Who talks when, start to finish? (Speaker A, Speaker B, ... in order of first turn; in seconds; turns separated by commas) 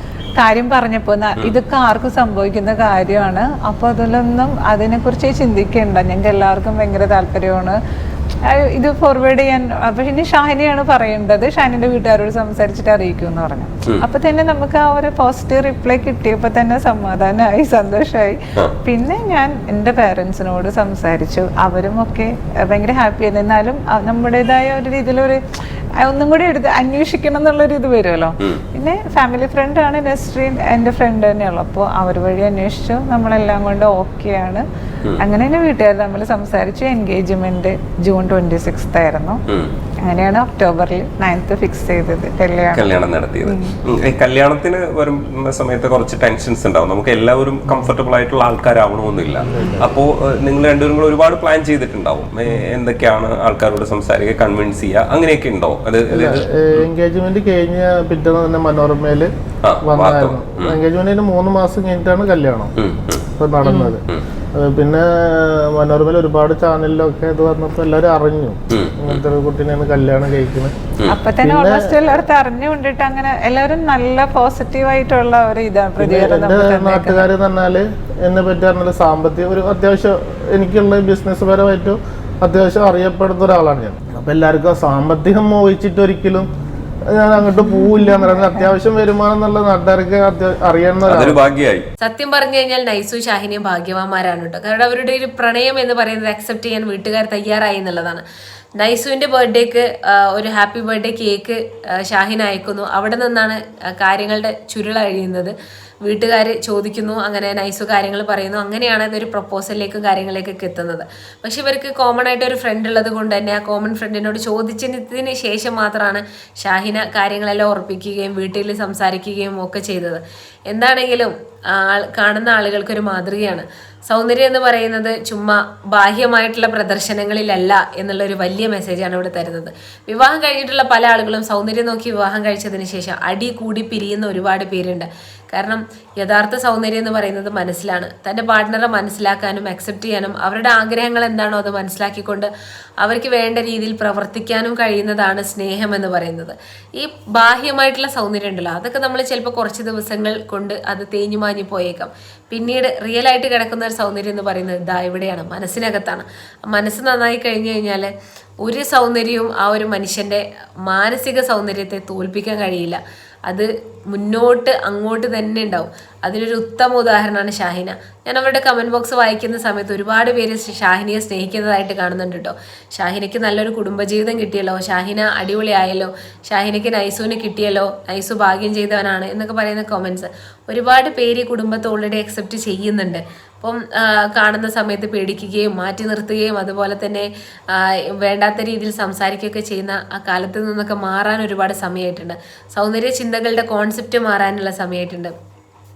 Speaker A: 0.4-7.8, Speaker A: 8.5-25.4, Speaker A: 26.0-34.6, Speaker A: 35.2-39.4, Speaker A: 40.0-42.9, Speaker B: 42.7-56.9, Speaker A: 43.5-43.8, Speaker C: 49.4-49.9, Speaker C: 56.1-59.3, Speaker B: 59.6-60.8, Speaker C: 59.8-62.7, Speaker B: 62.8-63.2, Speaker C: 63.3-70.7, Speaker B: 68.7-69.2, Speaker A: 71.1-77.3, Speaker C: 71.4-72.0, Speaker C: 76.0-86.5, Speaker C: 87.1-91.4, Speaker A: 87.6-88.6, Speaker B: 91.1-91.9, Speaker D: 92.0-98.2, Speaker D: 98.8-142.5, Speaker D: 143.0-158.1, Speaker D: 158.6-195.3